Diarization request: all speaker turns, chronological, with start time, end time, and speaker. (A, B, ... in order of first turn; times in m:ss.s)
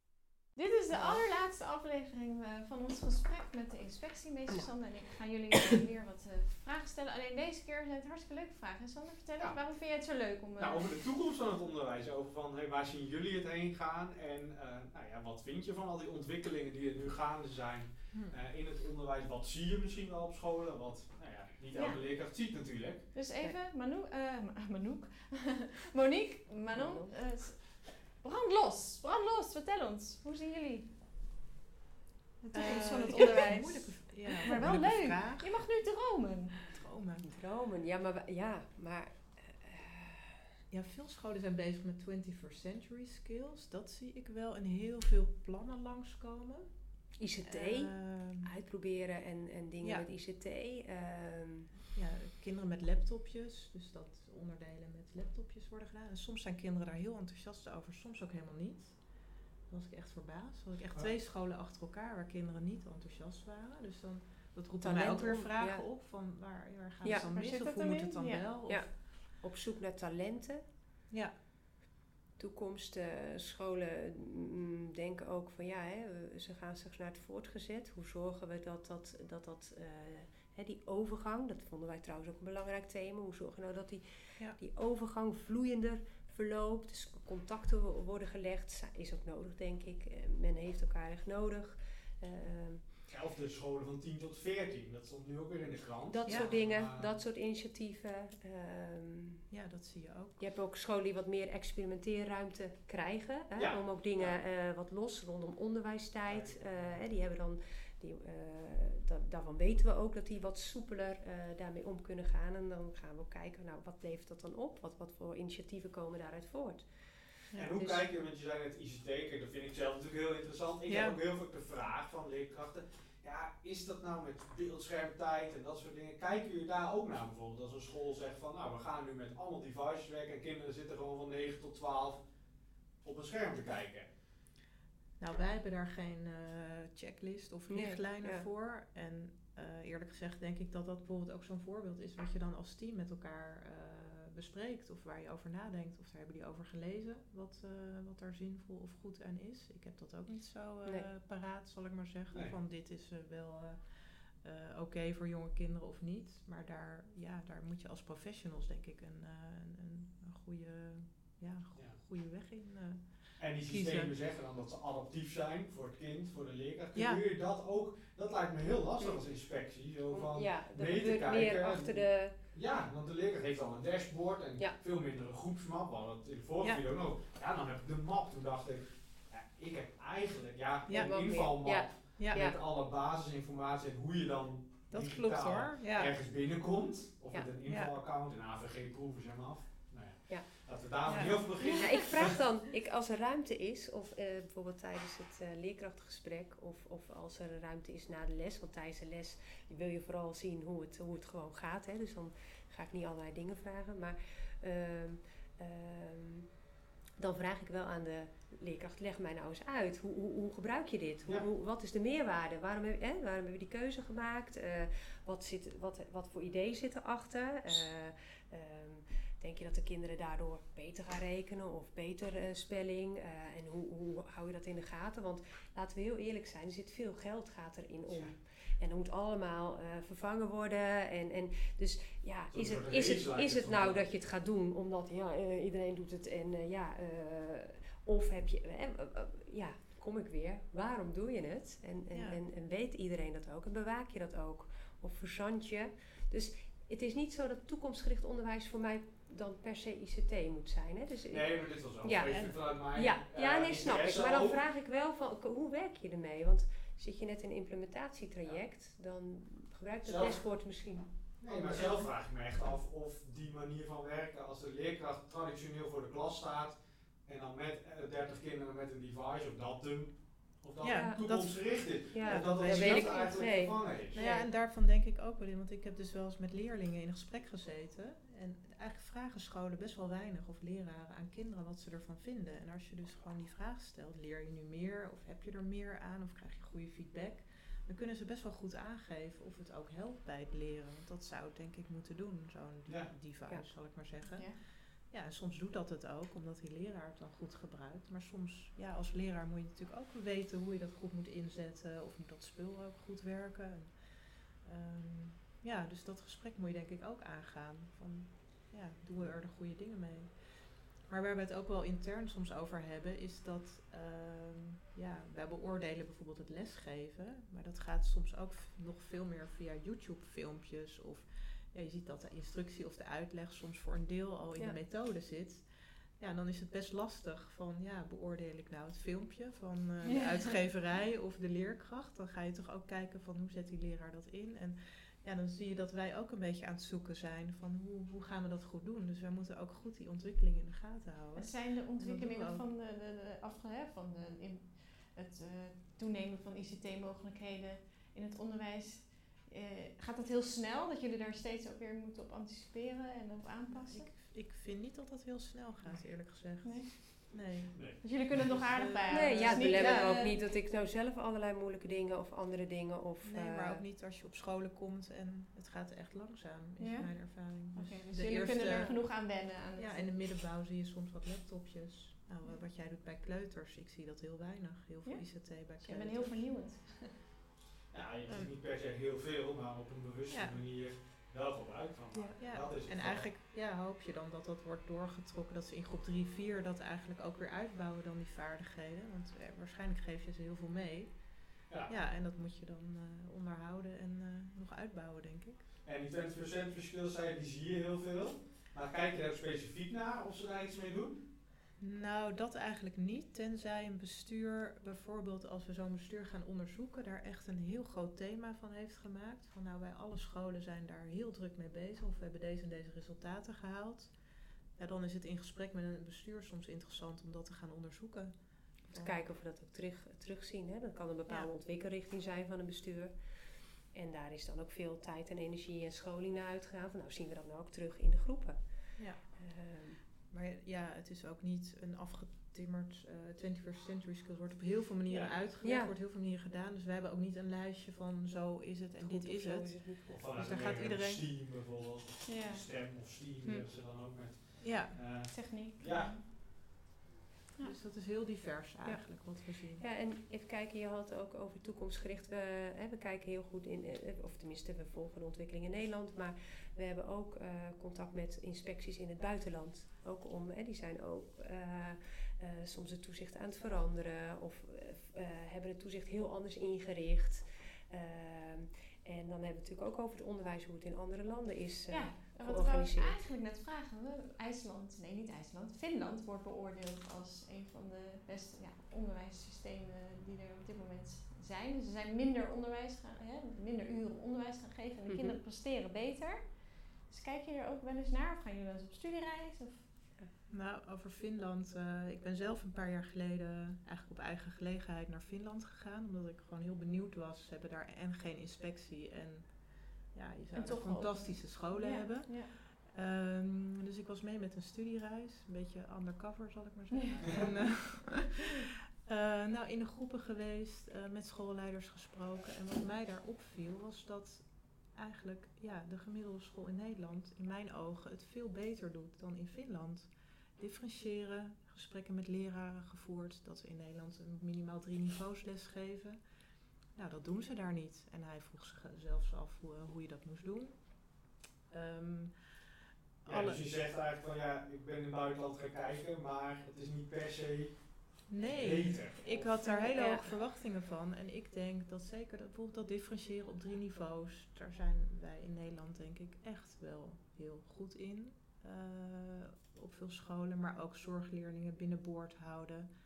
0:00.5-0:11.0 A
0:00.9-0:01.2 B
0:09.4-0:09.6 C
0:10.6-0:23.0 C
0:21.7-0:22.0 A
0:23.1-0:30.9 A
0:26.7-0:27.2 B
0:32.4-0:35.6 D
0:32.5-0:36.7 A
0:36.7-0:37.3 D
0:37.2-0:40.4 B
0:40.7-0:48.5 D
0:47.2-0:51.7 B
0:51.9-1:08.9 D
1:04.8-1:05.8 B
1:07.0-1:08.4 A
1:08.6-1:10.6 B
1:12.4-1:32.9 B
1:33.1-1:37.2 C
1:36.1-1:39.4 B
1:36.3-1:36.5 D
1:39.5-1:40.4 D
1:40.4-1:58.1 B
1:43.5-1:44.4 C
1:46.3-1:47.0 C
1:57.6-2:12.2 C
2:00.9-2:01.2 D
2:13.0-2:14.1 C
2:15.2-2:44.2 D
2:17.7-2:18.5 B
2:32.3-2:32.5 C
2:41.7-2:42.0 C
2:43.4-3:12.4 C
2:46.9-2:47.2 D
2:49.0-2:49.4 B
2:50.1-2:52.4 B
3:00.9-3:01.3 D
3:00.9-3:02.6 B
3:02.2-3:02.4 D
3:04.9-3:06.1 D
3:07.7-3:08.0 D
3:11.0-3:11.9 D
3:11.1-3:26.6 B
3:27.2-4:21.1 B
3:48.1-3:48.3 C
3:52.5-3:54.1 C
4:02.1-4:02.4 D
4:11.3-4:14.6 C
4:20.0-4:34.2 C
4:21.5-4:22.0 D
4:30.8-5:42.7 D
4:30.9-4:31.2 B
4:31.8-4:34.5 B
4:52.8-4:53.2 C
4:54.3-4:54.6 A
5:30.1-5:30.5 A
5:41.3-5:54.1 A
5:53.7-5:57.8 D
5:56.6-5:57.4 A
5:57.7-5:58.6 C
5:58.0-6:00.4 A
5:58.7-6:00.1 D
5:59.1-6:03.8 B
6:03.2-6:09.2 D
6:06.8-6:10.1 A
6:09.8-6:16.6 D
6:15.0-6:17.2 A
6:17.9-6:23.2 C
6:18.2-6:18.5 D
6:20.3-6:20.6 D
6:22.1-6:35.6 D
6:35.8-6:41.2 C
6:41.8-6:59.2 D
6:58.9-7:10.0 B
7:09.0-7:09.2 D
7:10.2-7:21.3 D
7:15.1-7:15.3 C
7:15.6-7:15.9 B
7:19.0-7:20.2 B
7:20.1-7:26.2 C
7:22.2-7:22.6 A
7:24.6-7:25.0 D
7:25.2-7:26.2 A
7:27.6-7:29.8 D
7:28.8-7:53.2 B
7:51.9-8:09.9 A
8:05.1-8:05.4 B
8:10.5-8:28.5 D
8:20.5-8:22.5 A
8:29.0-8:52.6 D
8:53.2-8:53.6 D
8:53.2-8:59.6 C
8:58.3-9:12.9 D
8:59.6-9:00.0 A
8:59.9-9:00.2 B